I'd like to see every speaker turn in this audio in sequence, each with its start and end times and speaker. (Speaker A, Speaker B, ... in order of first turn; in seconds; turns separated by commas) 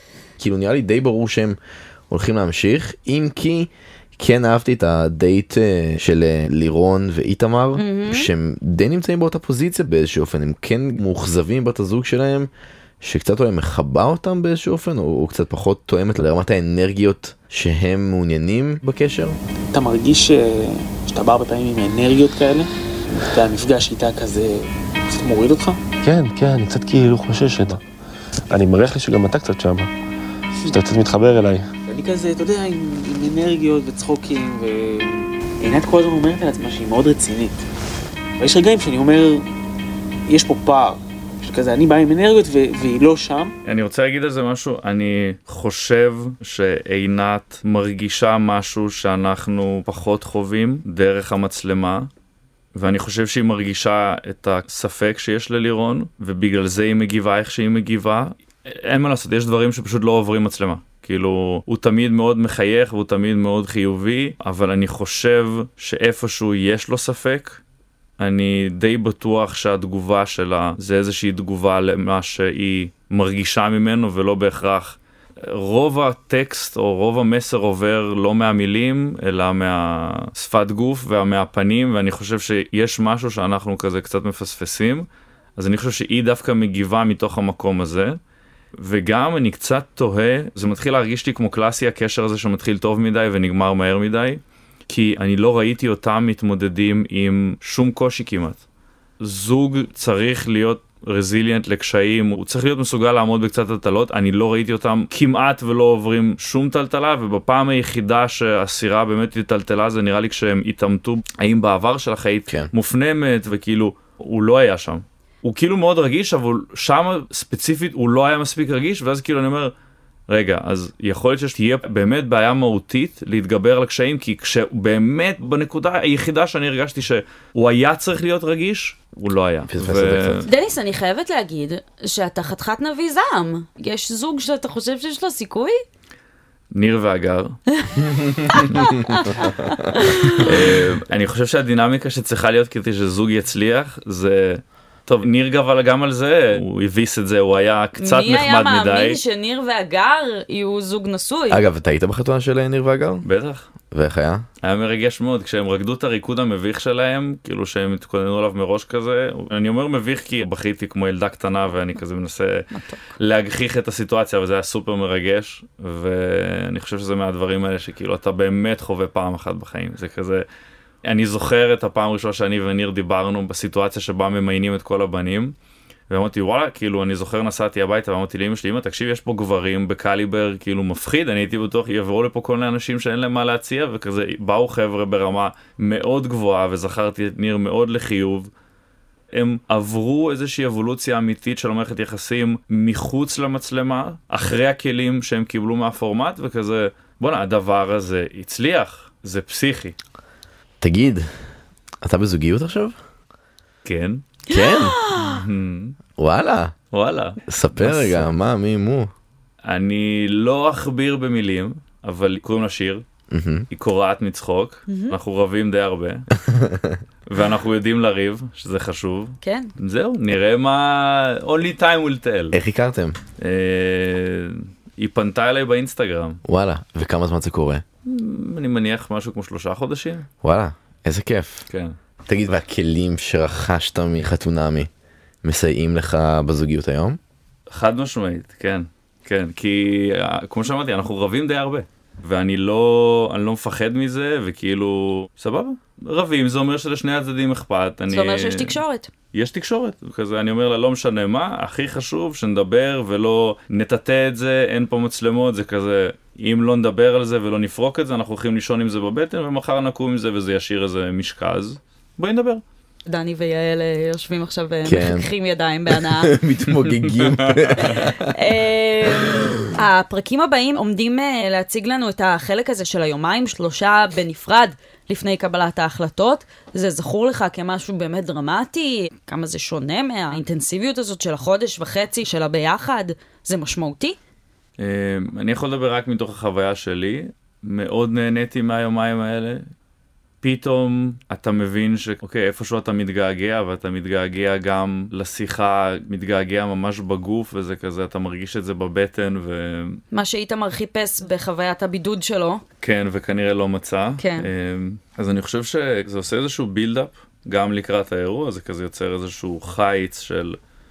Speaker A: 0.4-1.6, Speaker A: 2.1-12.5, Speaker B: 7.8-8.3, Speaker A: 13.0-19.4, Speaker C: 19.7-25.8, Speaker D: 26.0-27.8, Speaker D: 28.5-29.9, Speaker D: 30.7-31.7, Speaker C: 31.9-37.6, Speaker C: 38.4-39.4, Speaker C: 40.3-43.5, Speaker E: 43.6-52.1, Speaker E: 52.7-67.6, Speaker E: 68.2-88.2, Speaker E: 88.8-98.6, Speaker E: 99.2-119.7, Speaker E: 120.3-130.5, Speaker A: 129.7-130.4, Speaker B: 130.5-135.8, Speaker E: 136.7-137.6, Speaker B: 137.7-140.5, Speaker A: 138.0-139.7, Speaker E: 140.4-149.2, Speaker B: 148.0-151.6, Speaker A: 151.5-153.2, Speaker E: 153.2-153.7, Speaker A: 153.9-154.4, Speaker E: 154.6-170.4, Speaker B: 162.7-163.0, Speaker E: 171.0-175.6, Speaker E: 176.1-188.5, Speaker E: 189.3-200.0, Speaker A: 200.8-201.5, Speaker A: 202.0-202.9, Speaker E: 203.8-204.2, Speaker A: 204.5-205.0, Speaker B: 204.5-205.4, Speaker E: 205.0-206.0, Speaker A: 206.2-206.7, Speaker E: 206.9-208.3, Speaker A: 207.5-209.1, Speaker E: 209.6-213.0, Speaker A: 213.3-213.7, Speaker E: 213.7-216.3, Speaker B: 214.9-215.2, Speaker A: 216.5-217.0, Speaker E: 217.2-222.6, Speaker B: 219.4-219.7, Speaker A: 222.5-223.2, Speaker E: 223.4-226.4, Speaker A: 226.4-227.8, Speaker E: 228.0-230.3, Speaker A: 230.4-231.7, Speaker E: 231.7-232.0, Speaker A: 232.3-234.9, Speaker A: 235.4-237.2, Speaker E: 237.7-248.8, Speaker B: 248.1-249.1, Speaker E: 249.3-262.6, Speaker B: 263.1-266.3, Speaker A: 264.8-265.3, Speaker A: 265.9-268.3, Speaker E: 267.0-267.8, Speaker B: 267.8-284.2, Speaker E: 284.8-289.7, Speaker E: 290.4-300.0, Speaker B: 300.1-302.6, Speaker E: 302.8-310.6, Speaker B: 304.2-304.5